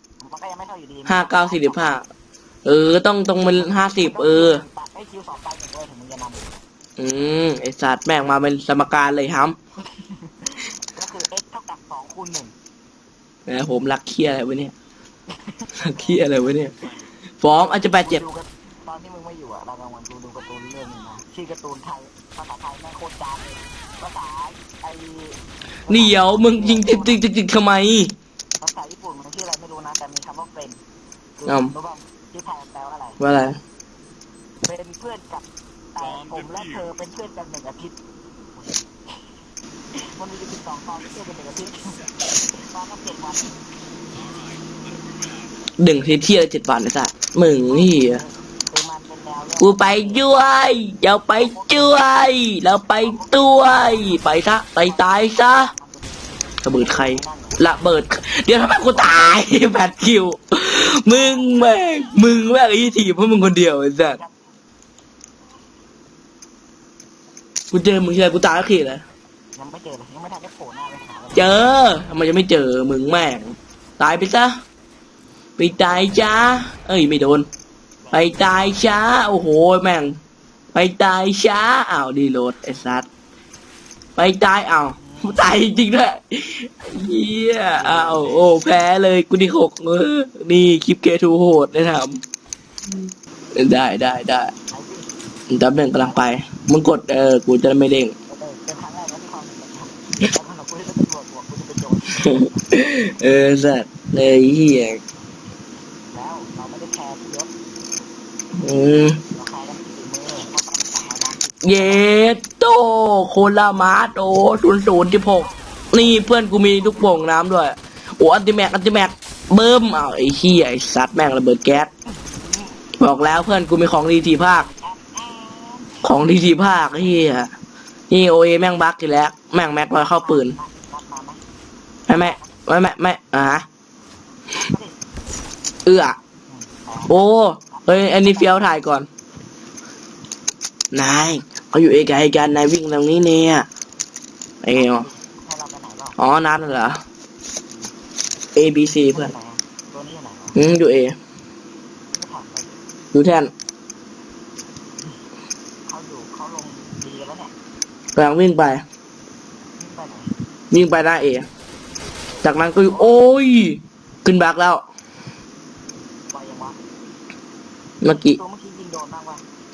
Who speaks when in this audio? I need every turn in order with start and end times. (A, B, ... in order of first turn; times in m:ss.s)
0:00.2-0:02.0 A
0:01.0-0:02.0 B
0:02.6-0:04.6 B
0:03.5-0:06.6 A
0:07.0-0:09.6 B
0:09.8-0:12.6 A
0:13.5-0:14.7 B
0:15.3-0:17.0 A
0:15.8-0:16.7 B
0:17.4-0:18.2 B
0:17.8-0:27.2 A
0:25.9-0:28.1 B
0:28.6-0:30.8 A
0:31.4-0:33.2 A
0:31.4-0:31.7 B
0:33.2-0:33.6 B
0:34.6-0:38.0 A
0:38.6-0:38.8 A
0:40.0-0:43.5 A
0:45.8-0:48.2 B
0:47.6-0:50.2 A
0:49.6-0:55.7 B
0:51.3-0:52.0 A
0:52.9-0:54.2 A
0:54.8-0:57.8 A
0:56.6-1:04.2 B
1:01.0-1:02.2 A
1:04.1-1:04.3 A
1:07.7-1:09.0 B
1:09.6-1:11.8 A
1:11.3-1:14.6 B
1:15.6-1:17.5 B
1:18.0-1:18.9 A
1:18.1-1:20.2 B
1:20.7-1:23.1 B
1:24.2-1:32.2 B
1:24.9-1:25.5 A
1:27.7-1:28.5 A
1:33.5-1:34.5 B
1:34.7-1:35.1 A
1:35.5-1:38.1 B
1:35.9-1:36.3 A
1:38.3-1:42.7 A
1:42.1-1:45.0 B
1:46.1-1:47.5 A
1:48.6-1:49.2 B
1:49.3-1:52.1 A
1:51.6-2:01.9 B
1:55.2-1:57.1 A
2:02.1-2:02.8 A
2:03.0-2:04.6 B
2:04.3-2:06.0 A
2:06.0-2:07.5 B
2:08.1-2:10.6 B
2:10.0-2:11.4 A
2:12.1-2:13.6 B
2:12.1-2:12.5 A
2:14.5-2:15.0 A
2:15.8-2:16.2 B
2:16.5-2:17.2 A
2:17.1-2:19.1 B
2:17.7-2:18.6 A
2:20.9-2:23.7 B
2:24.6-2:25.1 B
2:24.7-2:26.2 A
2:26.2-2:27.0 B
2:28.5-2:29.3 B
2:29.1-2:30.6 A
2:30.5-2:31.2 B
2:32.1-2:32.8 A
2:33.1-2:33.5 B
2:35.8-2:37.5 A
2:38.2-2:38.8 B
2:39.8-2:40.3 A
2:40.7-2:41.4 B
2:42.3-2:43.2 A
2:42.4-2:44.8 B
2:46.3-2:46.8 A
2:48.0-2:48.4 B
2:48.0-2:49.5 A